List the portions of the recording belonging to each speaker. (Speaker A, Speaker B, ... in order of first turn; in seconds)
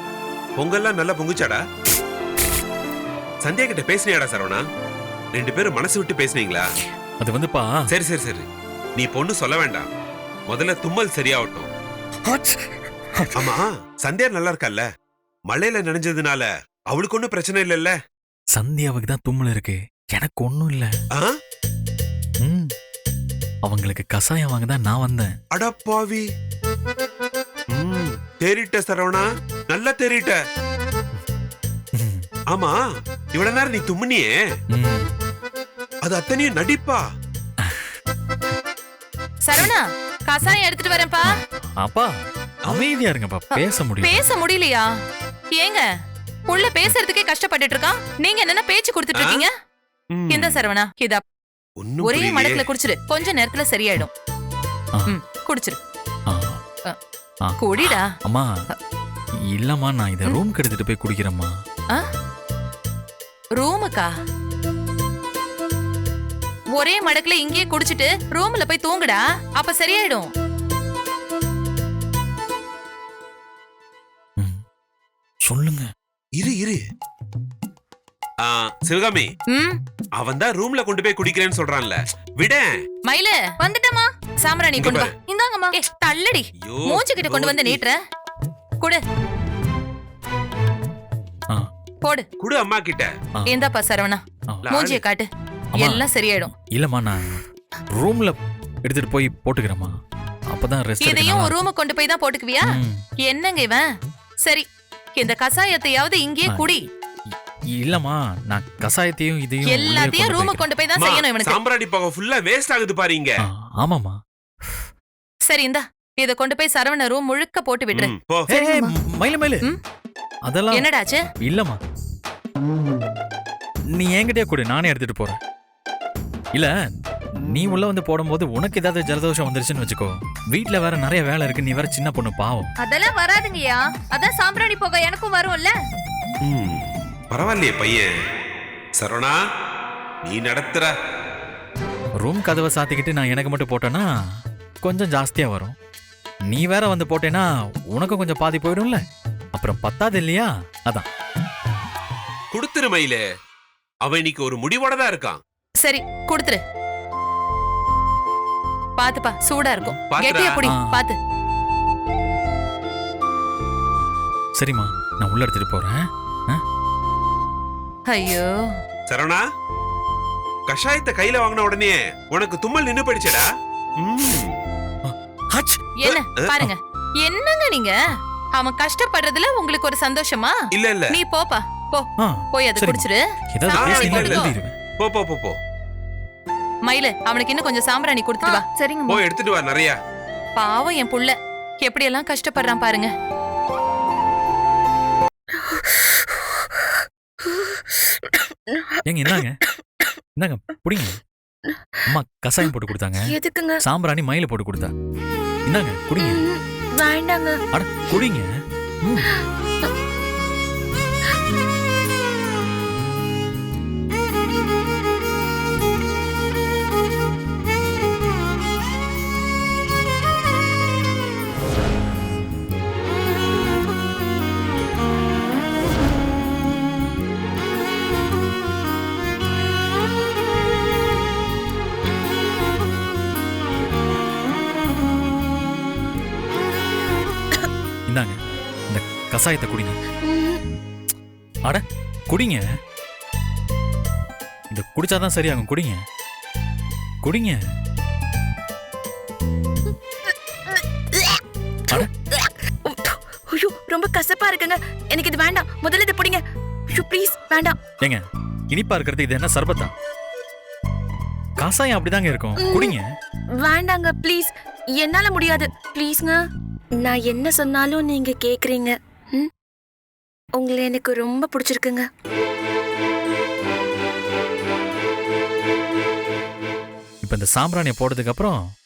Speaker A: 0.6-1.6, 3.4-4.6, 5.3-6.7, 7.9-8.4, 9.0-9.9, 10.5-11.7, 13.3-14.9, 15.5-17.9, 25.5-26.2, 27.7-30.4, 32.5-32.8, 33.3-34.3, 36.0-37.0, 49.2-49.4, 50.1-50.6, 51.8-52.6, 76.4-76.8, 78.4-79.3, 80.2-82.8, 84.8-85.1, 86.6-87.8, 92.4-93.1, 94.7-95.0, 111.0-113.4, 117.9-118.5, 136.4-138.1, 139.0-139.4, 140.2-140.9, 152.5-153.2, 154.0-155.4, 160.1-160.5, 169.1-169.4, 170.7-173.5, 174.0-174.5, 176.1-176.5, 180.7-181.1, 183.8-184.5, 185.0-185.6, 189.1-190.0
Speaker B: 7.2-7.7, 12.2-13.5, 18.5-20.9, 22.4-22.7, 23.6-25.3, 31.9-32.3, 34.7-35.1, 37.6-38.0, 41.6-42.1, 42.7-44.2, 56.3-56.6, 57.4-58.5, 59.5-61.5, 75.4-75.9, 95.8-97.4, 98.0-100.0, 100.5-101.5, 102.7-103.0, 107.3-110.6, 113.4-114.8, 118.5-119.7, 120.5-120.9, 121.4-121.8, 123.9-125.4, 127.4-132.7, 142.2-144.1, 144.8-145.7, 146.5-149.0, 149.6-151.1, 160.6-161.0, 164.6-166.6, 175.0-175.8, 182.2-184.7, 199.0-199.6, 200.4-201.2, 202.1-203.3, 203.8-204.9, 205.7-206.4, 207.7-208.5, 209.0-209.3, 238.1-240.0, 241.7-242.6, 244.7-246.0, 247.2-247.6, 258.0-259.9, 261.6-263.1, 277.2-278.6
Speaker C: 39.5-41.3, 43.5-44.9, 45.5-45.8, 46.5-49.5, 50.3-51.2, 52.0-54.1, 55.1-55.8, 57.6-58.0, 63.6-64.1, 66.8-70.3, 79.5-79.8, 83.1-83.5, 84.4-85.1, 85.7-88.0, 93.5-95.3, 95.8-96.5, 101.0-102.7, 103.3-103.8, 105.2-106.8, 109.7-111.6, 115.5-118.7, 120.8-121.2, 155.8-156.6, 159.0-161.2, 168.1-168.5, 176.0-177.9, 178.5-180.6, 181.1-184.5, 186.9-188.6, 190.6-193.1
Speaker D: 83.6-84.1, 85.3-85.7, 132.8-135.7, 188.4-189.2
Speaker E: 195.5-195.8, 197.4-197.8, 198.7-199.0, 201.7-202.0, 203.2-203.8, 206.2-207.6, 209.3-209.9, 240.2-240.6, 249.9-257.8, 262.6-263.0, 263.6-266.4, 267.0-269.5, 270.6-272.1